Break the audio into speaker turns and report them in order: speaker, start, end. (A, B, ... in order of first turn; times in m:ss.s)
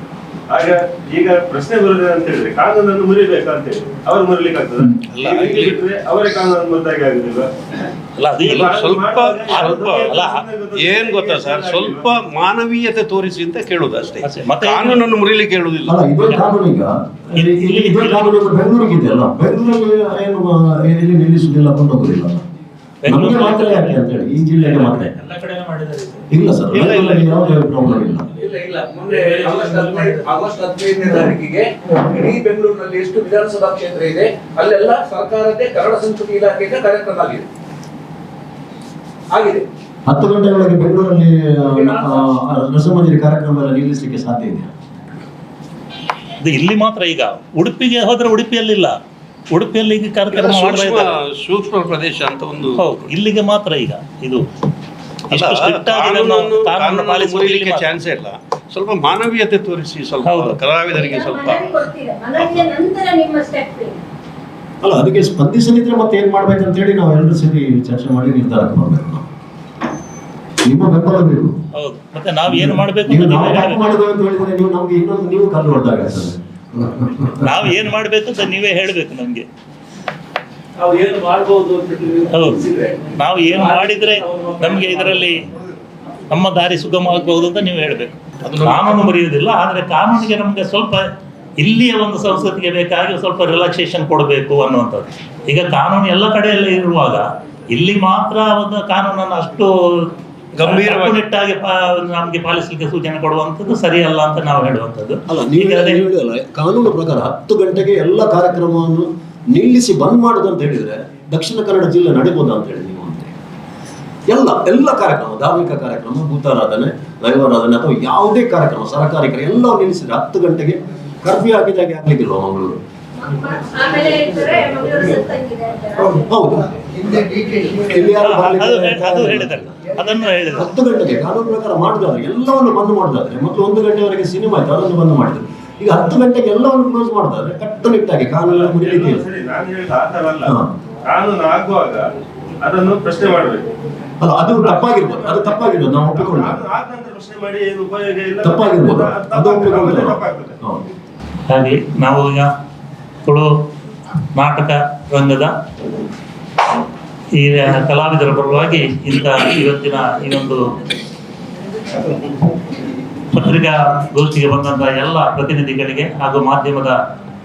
0:00.5-0:07.9 A
0:05.1-0:05.8 B
0:08.2-0:08.7 C
0:08.4-0:12.0 A
0:08.4-0:10.1 B
0:09.6-0:10.4 C
0:10.7-0:16.0 B
0:14.2-0:15.0 C
0:15.9-0:22.4 D
0:17.3-0:18.4 C
0:23.0-0:24.0 C
0:23.1-0:25.1 D
0:24.6-0:26.2 E
0:26.3-0:28.3 D
0:26.7-0:27.3 B
0:28.4-0:37.4 F
0:29.0-0:30.3 E
0:39.3-0:39.6 F
0:40.1-0:44.7 D
0:46.4-0:48.9 C
0:49.5-0:51.1 C
0:50.3-0:53.1 B
0:52.8-0:54.4 C
0:55.3-0:57.9 C
0:55.3-1:02.7 B
1:00.2-1:00.6 C
1:00.9-1:04.0 G
1:04.8-1:09.2 D
1:10.6-1:11.5 D
1:11.8-1:13.9 C
1:12.5-1:17.3 D
1:17.3-1:19.4 C
1:20.8-1:23.0 F
1:22.3-1:25.4 C
1:26.3-1:31.0 C
1:31.6-1:40.1 C
1:40.5-1:41.2 B
1:40.6-1:46.0 C
1:45.3-1:53.3 D
1:54.3-2:02.8 D
2:03.2-2:06.3 G
2:06.2-2:09.7 D
2:08.2-2:10.7 C
2:10.5-2:19.2 D
2:18.5-2:20.5 A
2:21.1-2:22.0 A
2:22.6-2:23.7 A
2:24.2-2:26.6 D
2:24.5-2:30.6 A
2:28.4-2:30.8 D
2:31.5-2:32.5 C
2:34.4-2:35.5 C
2:37.4-2:40.6 C
2:43.3-2:46.9 C